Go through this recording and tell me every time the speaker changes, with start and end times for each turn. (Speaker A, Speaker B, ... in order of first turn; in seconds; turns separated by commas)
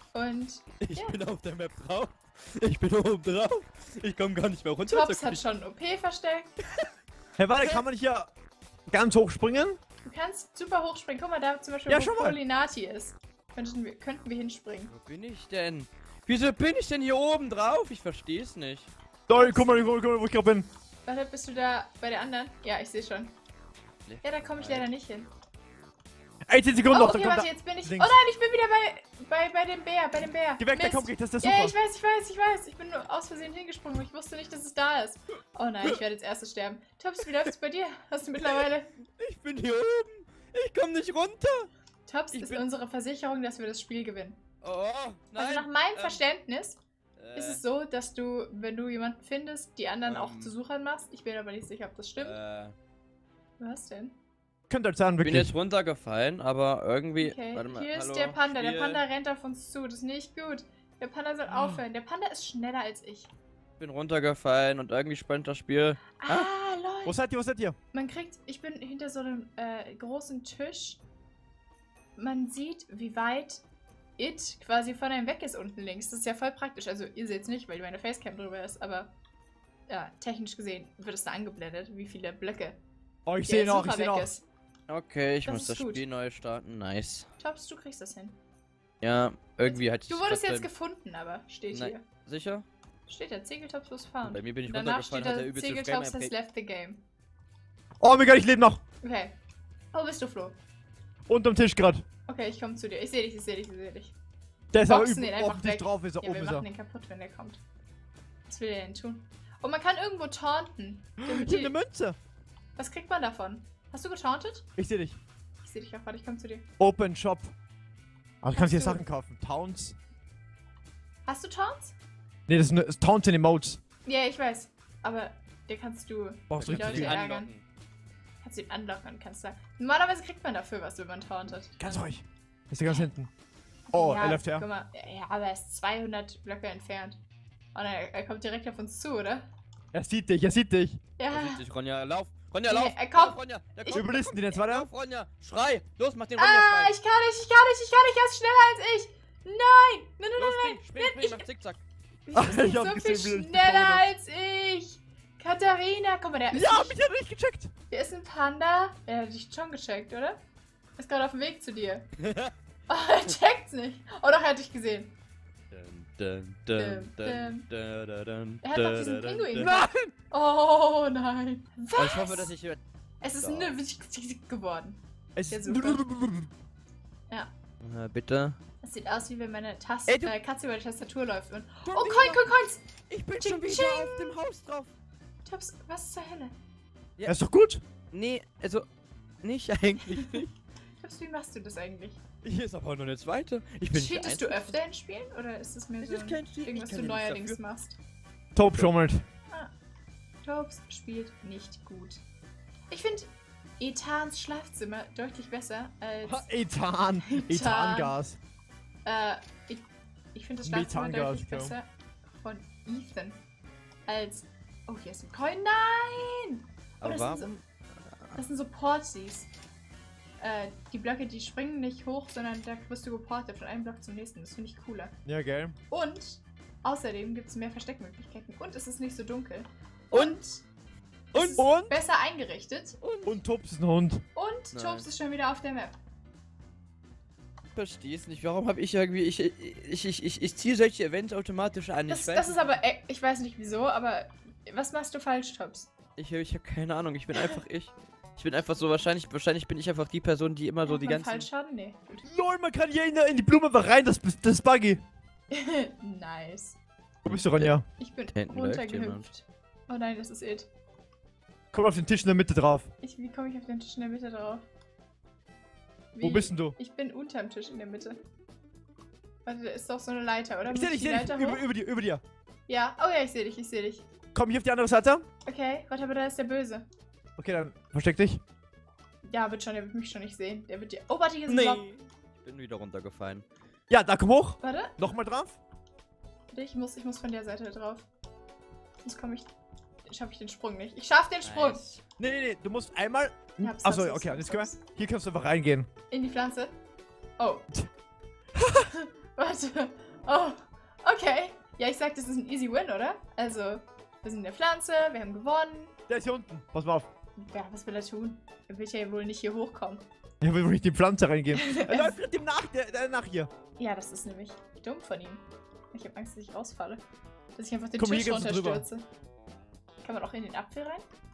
Speaker A: 0.1-1.2, Speaker B: 0.8-5.4, Speaker A: 4.9-6.5, Speaker C: 7.4-8.3, Speaker A: 7.6-7.8, Speaker C: 8.9-9.8, Speaker A: 10.0-14.9, Speaker C: 11.9-12.4, Speaker B: 14.9-18.9, Speaker C: 19.3-20.7, Speaker A: 19.3-19.9, Speaker A: 21.1-23.3, Speaker B: 24.1-24.9, Speaker A: 24.2-25.3, Speaker C: 26.5-28.2, Speaker A: 26.9-38.9, Speaker C: 30.6-31.8, Speaker B: 39.2-41.7, Speaker A: 42.1-44.4, Speaker B: 42.3-42.6, Speaker B: 44.6-46.2, Speaker A: 45.4-46.8, Speaker B: 47.2-47.6, Speaker A: 47.4-52.4, Speaker B: 50.0-50.5, Speaker B: 52.2-52.7, Speaker A: 53.6-54.1, Speaker C: 54.7-55.5, Speaker B: 55.2-59.0, Speaker A: 57.2-63.3, Speaker C: 61.5-61.8, Speaker B: 63.8-66.5, Speaker A: 66.2-67.2, Speaker C: 67.0-67.8, Speaker A: 67.9-71.0, Speaker A: 72.2-73.6, Speaker A: 74.2-79.1, Speaker A: 79.9-82.8, Speaker C: 83.3-84.3, Speaker A: 83.5-84.4, Speaker B: 84.9-87.3, Speaker A: 85.5-86.0, Speaker A: 87.4-88.4, Speaker B: 89.0-90.7, Speaker A: 89.6-92.0, Speaker B: 91.7-92.7, Speaker A: 93.1-97.0, Speaker B: 94.3-96.3, Speaker C: 98.0-98.8, Speaker A: 99.0-99.3, Speaker A: 99.9-100.6, Speaker C: 101.3-102.0, Speaker A: 102.3-104.2, Speaker C: 104.7-106.7, Speaker A: 104.8-107.6, Speaker A: 108.5-111.8, Speaker C: 111.2-112.2, Speaker A: 112.8-114.7, Speaker C: 114.8-115.2, Speaker A: 115.6-116.7, Speaker C: 116.8-117.5, Speaker C: 118.4-120.0, Speaker A: 118.5-119.0, Speaker A: 121.3-122.0, Speaker C: 122.5-123.8, Speaker A: 124.0-127.5, Speaker C: 126.5-127.2, Speaker B: 126.5-127.7, Speaker A: 128.4-132.0, Speaker C: 131.8-133.3, Speaker A: 133.9-137.2, Speaker C: 133.9-134.7, Speaker A: 137.7-139.4, Speaker C: 139.9-141.0, Speaker A: 141.2-141.6, Speaker B: 141.3-146.9, Speaker A: 142.7-144.0, Speaker C: 143.9-144.9, Speaker A: 146.4-151.5, Speaker B: 150.4-151.8, Speaker A: 152.3-157.0, Speaker C: 152.3-154.1, Speaker C: 156.5-157.7, Speaker A: 157.9-160.4, Speaker A: 161.0-162.1, Speaker B: 162.2-162.5, Speaker A: 162.9-165.1, Speaker B: 165.7-169.8, Speaker A: 166.8-167.7, Speaker A: 168.6-172.5, Speaker C: 169.6-170.1, Speaker B: 171.9-172.8, Speaker A: 173.2-176.1, Speaker B: 173.4-173.8, Speaker C: 175.4-176.5, Speaker B: 177.8-178.6, Speaker A: 178.8-182.8, Speaker B: 180.1-180.3, Speaker C: 181.8-182.5, Speaker B: 183.1-184.9, Speaker A: 183.4-184.4, Speaker A: 185.4-186.5, Speaker C: 187.2-187.8, Speaker B: 188.1-188.9, Speaker B: 189.4-190.5, Speaker A: 191.0-192.2, Speaker B: 192.4-194.8, Speaker A: 193.9-198.0, Speaker B: 196.0-197.6, Speaker C: 198.6-199.2, Speaker B: 198.7-198.9, Speaker A: 200.4-202.2, Speaker A: 202.9-206.5, Speaker C: 206.2-208.4, Speaker A: 207.3-208.2, Speaker A: 209.1-213.4, Speaker C: 210.6-211.8, Speaker A: 214.1-217.5, Speaker B: 217.0-217.6, Speaker A: 218.3-219.5, Speaker A: 220.4-225.2, Speaker C: 225.3-225.8, Speaker A: 225.9-230.7, Speaker B: 230.1-230.4, Speaker A: 231.3-233.0, Speaker B: 231.3-231.6, Speaker C: 231.6-232.0, Speaker B: 233.0-233.4, Speaker C: 233.3-234.2, Speaker A: 234.3-235.9, Speaker B: 234.7-235.1, Speaker B: 237.8-242.5, Speaker A: 242.1-245.9, Speaker B: 246.2-251.5, Speaker A: 250.8-252.3, Speaker C: 252.2-255.0, Speaker A: 255.5-256.8, Speaker B: 257.2-257.8, Speaker C: 257.3-257.9, Speaker A: 258.0-260.7, Speaker B: 258.3-259.2, Speaker C: 261.7-262.9, Speaker A: 263.0-264.6, Speaker A: 266.1-268.2, Speaker C: 266.2-266.8, Speaker A: 269.4-271.6, Speaker C: 270.7-272.2, Speaker A: 272.7-274.1, Speaker C: 274.4-275.3, Speaker A: 275.5-276.9, Speaker C: 277.4-278.4, Speaker A: 279.2-281.9, Speaker B: 281.5-283.5, Speaker C: 283.9-285.6, Speaker A: 284.6-285.0, Speaker A: 286.5-288.1, Speaker A: 289.0-289.5, Speaker A: 290.1-291.8, Speaker B: 291.4-292.0, Speaker C: 292.2-295.9, Speaker A: 293.6-294.8, Speaker A: 296.1-296.7, Speaker A: 297.4-297.7, Speaker C: 298.6-298.9, Speaker A: 298.9-305.9, Speaker C: 306.1-307.1, Speaker A: 307.4-310.0, Speaker C: 310.4-313.5, Speaker A: 311.5-312.2, Speaker A: 313.8-317.0, Speaker A: 317.6-319.1, Speaker C: 318.0-318.9, Speaker A: 320.0-321.0